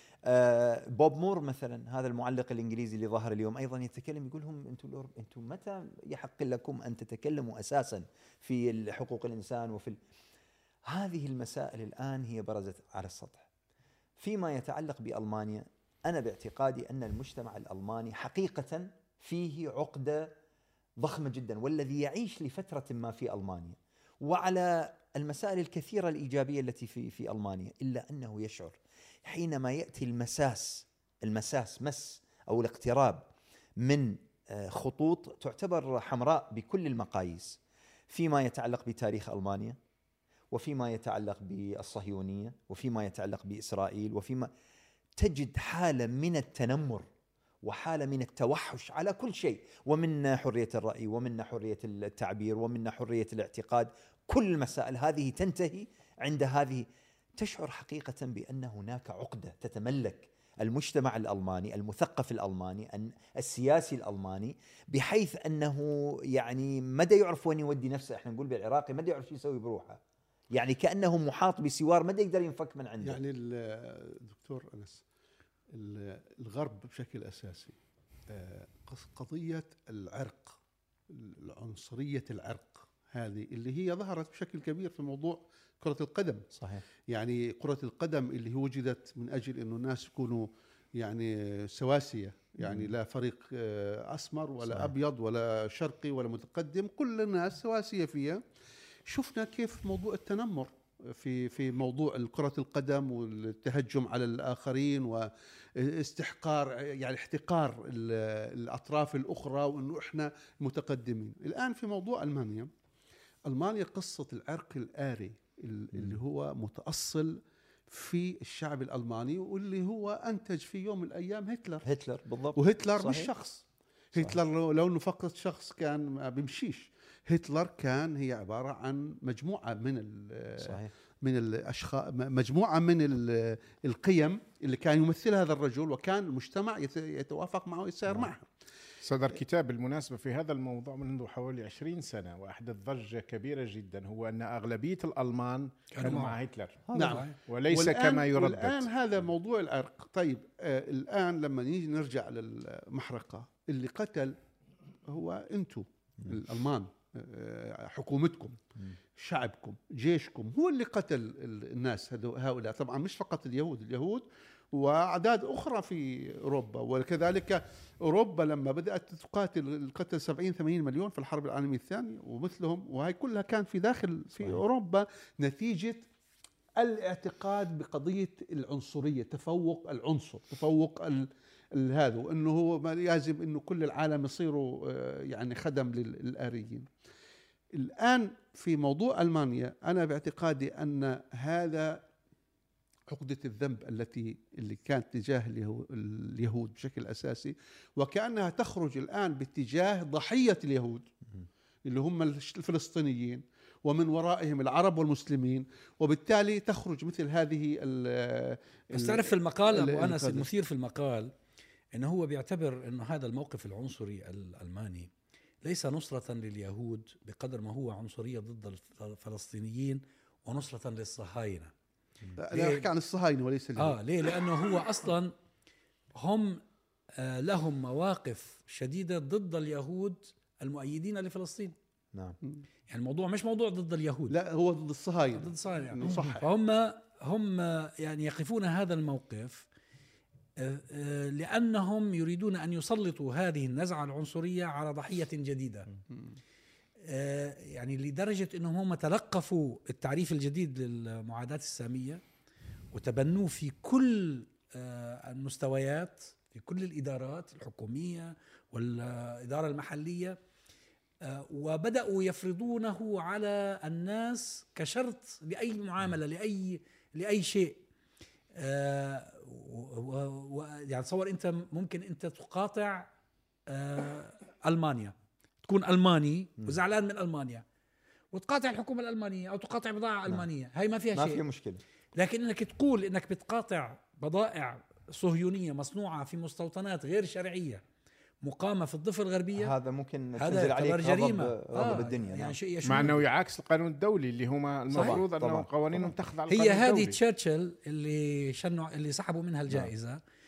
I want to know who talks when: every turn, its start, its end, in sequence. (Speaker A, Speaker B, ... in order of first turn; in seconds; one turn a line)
Speaker A: 0.2-10.0
Speaker A: 10.8-13.5
Speaker A: 14.2-20.3
Speaker A: 21.0-33.3
Speaker A: 33.8-39.8
Speaker A: 40.5-44.5
Speaker A: 45.1-47.1
Speaker A: 47.6-70.0
Speaker A: 70.5-73.2
Speaker B: 73.0-75.0
Speaker B: 75.7-77.8
Speaker B: 78.3-80.6
Speaker B: 81.1-86.5
Speaker A: 86.5-86.8
Speaker B: 87.1-98.4
Speaker A: 92.6-92.9
Speaker A: 94.7-94.9
Speaker B: 99.0-112.7
Speaker B: 113.5-121.8
Speaker A: 121.8-123.3
Speaker B: 122.5-138.5
Speaker A: 130.6-130.9
Speaker C: 139.0-146.8
Speaker D: 145.9-146.4
Speaker A: 146.9-147.2
Speaker B: 146.9-154.3
Speaker D: 147.0-147.3
Speaker C: 147.5-148.9
Speaker B: 155.1-158.6
Speaker B: 159.2-176.0
Speaker B: 176.8-186.9
Speaker B: 187.7-192.0
Speaker B: 193.1-201.0
Speaker B: 201.8-210.5
Speaker D: 208.9-211.3
Speaker D: 211.9-215.1
Speaker D: 215.6-221.7
Speaker B: 222.4-224.0
Speaker D: 222.5-222.9
Speaker D: 223.8-225.3
Speaker D: 226.2-226.6
Speaker D: 227.2-231.8
Speaker A: 232.1-232.4
Speaker D: 232.9-234.4
Speaker B: 234.3-236.5
Speaker D: 235.3-239.7
Speaker D: 240.6-245.9
Speaker B: 246.1-246.4
Speaker D: 247.0-252.2
Speaker D: 252.9-260.4
Speaker D: 261.2-267.8
Speaker D: 268.5-273.1
Speaker D: 273.7-277.6
Speaker D: 278.3-281.4
Speaker A: 281.1-281.8
Speaker D: 282.1-287.8
Speaker D: 288.4-289.7
Speaker A: 289.5-292.6
Speaker D: 290.4-293.2
Speaker C: 292.8-297.2
Speaker A: 294.9-296.1
Speaker D: 296.5-300.2